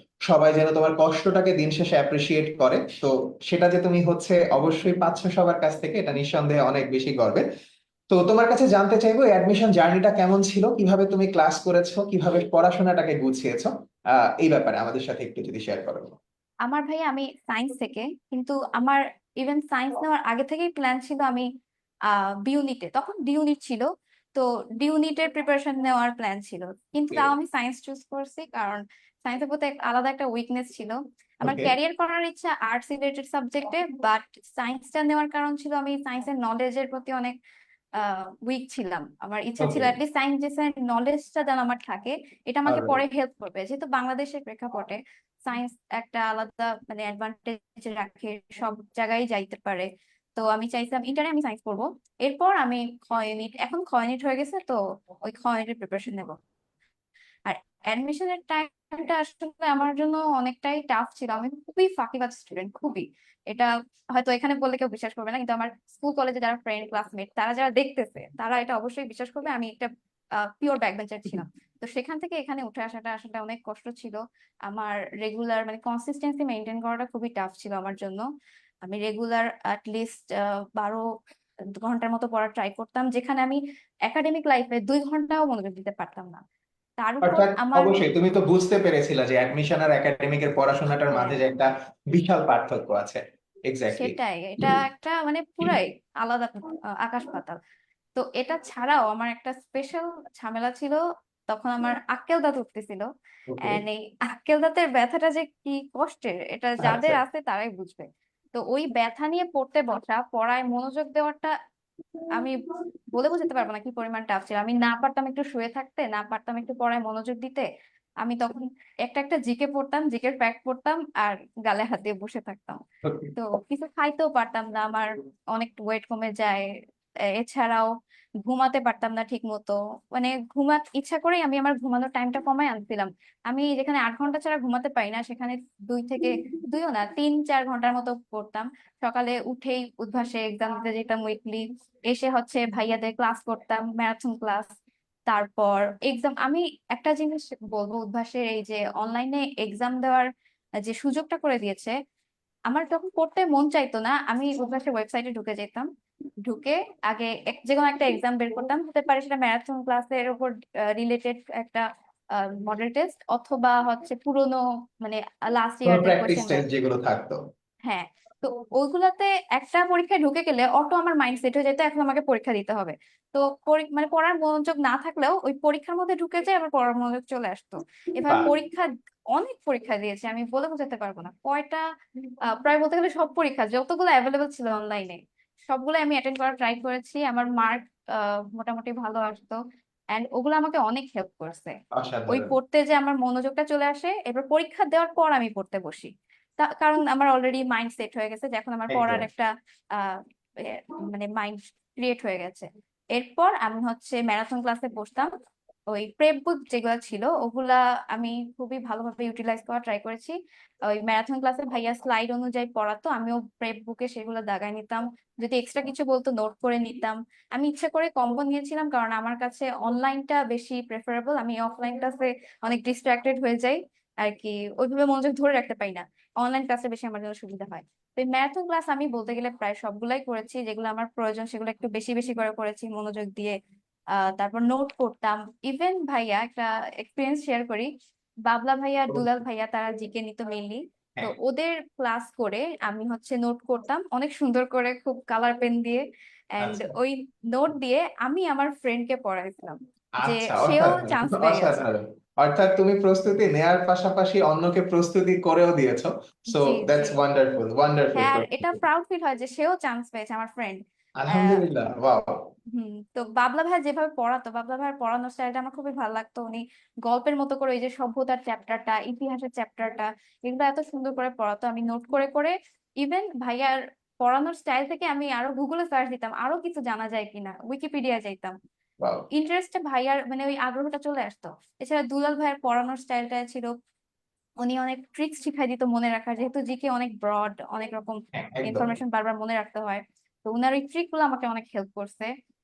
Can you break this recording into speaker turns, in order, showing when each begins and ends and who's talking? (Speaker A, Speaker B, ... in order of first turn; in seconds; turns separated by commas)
Speaker A: 0.3-7.4, Speaker A: 8.1-16.2, Speaker B: 16.7-21.5, Speaker B: 22.1-37.3, Speaker A: 31.4-31.7, Speaker B: 38.0-56.4, Speaker A: 39.6-39.9, Speaker A: 42.7-43.0, Speaker B: 57.5-69.9, Speaker B: 70.4-74.2, Speaker B: 74.7-78.2, Speaker B: 78.8-81.1, Speaker B: 81.8-86.4, Speaker B: 87.0-88.0, Speaker A: 87.2-94.7, Speaker B: 91.1-91.4, Speaker B: 94.0-97.6, Speaker B: 98.2-103.1, Speaker A: 103.5-103.8, Speaker B: 103.7-111.5, Speaker A: 106.8-107.2, Speaker B: 113.1-117.7, Speaker B: 118.2-122.8, Speaker B: 123.4-126.7, Speaker B: 127.4-127.9, Speaker B: 128.4-144.7, Speaker B: 145.3-150.3, Speaker B: 150.8-152.0, Speaker B: 152.7-155.9, Speaker B: 156.5-161.8, Speaker B: 162.4-166.6, Speaker A: 165.9-167.4, Speaker B: 167.9-181.8, Speaker B: 182.5-189.6, Speaker B: 190.1-191.7, Speaker A: 191.9-192.5, Speaker B: 192.3-205.3, Speaker A: 198.9-199.2, Speaker B: 205.9-210.3, Speaker B: 210.9-233.6, Speaker B: 234.2-237.9, Speaker B: 238.5-246.0, Speaker B: 246.6-251.8, Speaker A: 246.6-246.9, Speaker A: 250.2-258.8, Speaker B: 256.5-257.1, Speaker B: 258.2-260.8, Speaker A: 261.2-262.4, Speaker B: 261.3-261.6, Speaker B: 262.7-278.6, Speaker B: 279.3-283.7, Speaker B: 284.6-292.3, Speaker A: 288.4-289.0